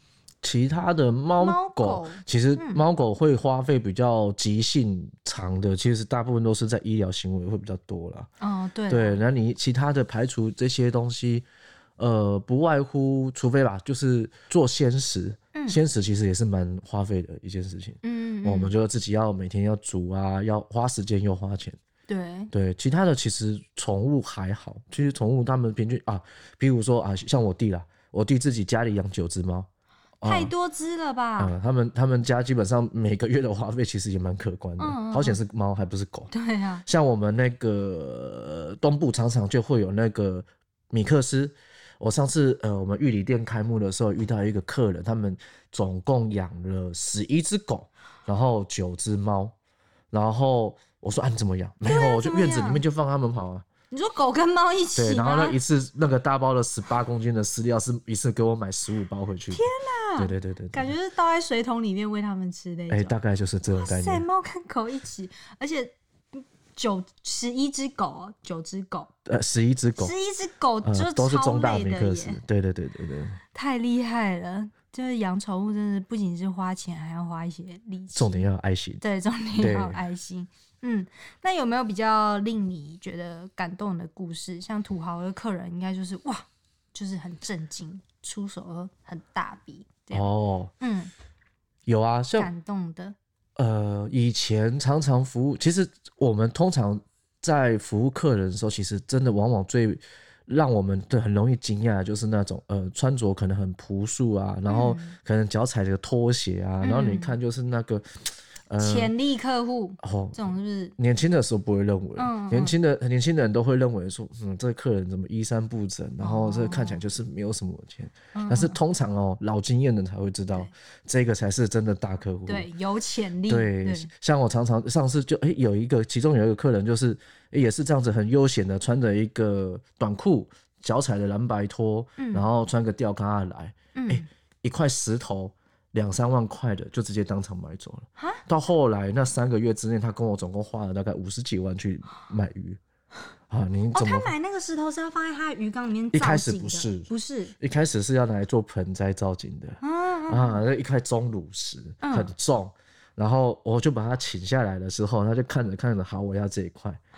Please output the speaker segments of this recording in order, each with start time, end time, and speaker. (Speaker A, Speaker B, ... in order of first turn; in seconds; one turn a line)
Speaker A: 0.4-8.3
Speaker B: 1.4-2.8
Speaker B: 8.4-9.2
Speaker A: 8.9-11.4
Speaker A: 12.0-21.8
Speaker B: 15.5-15.8
Speaker B: 18.0-18.7
Speaker B: 22.1-22.5
Speaker A: 22.5-29.7
Speaker A: 30.2-30.5
Speaker B: 30.2-31.5
Speaker A: 31.4-36.3
Speaker B: 34.8-35.4
Speaker B: 36.3-36.9
Speaker A: 36.9-49.5
Speaker A: 50.1-53.6
Speaker B: 51.9-52.8
Speaker B: 53.9-55.6
Speaker A: 55.0-59.6
Speaker B: 59.5-63.2
Speaker A: 60.2-60.9
Speaker A: 62.9-64.2
Speaker B: 63.7-69.1
Speaker A: 69.2-70.1
Speaker B: 70.0-72.4
Speaker A: 70.8-73.4
Speaker B: 73.5-78.5
Speaker A: 78.1-79.0
Speaker B: 79.0-91.1
Speaker A: 79.6-80.0
Speaker A: 90.1-90.7
Speaker A: 91.9-92.5
Speaker B: 92.4-93.2
Speaker A: 93.6-109.1
Speaker B: 104.7-105.2
Speaker B: 106.8-107.4
Speaker B: 108.8-111.0
Speaker A: 110.0-122.7
Speaker B: 112.2-112.7
Speaker B: 116.2-117.0
Speaker B: 118.3-118.8
Speaker B: 122.5-124.1
Speaker A: 123.5-142.8
Speaker B: 132.2-132.5
Speaker B: 133.9-134.3
Speaker A: 143.5-144.3
Speaker B: 143.9-147.5
Speaker A: 146.1-147.1
Speaker A: 147.6-157.0
Speaker B: 149.8-150.6
Speaker B: 152.0-152.3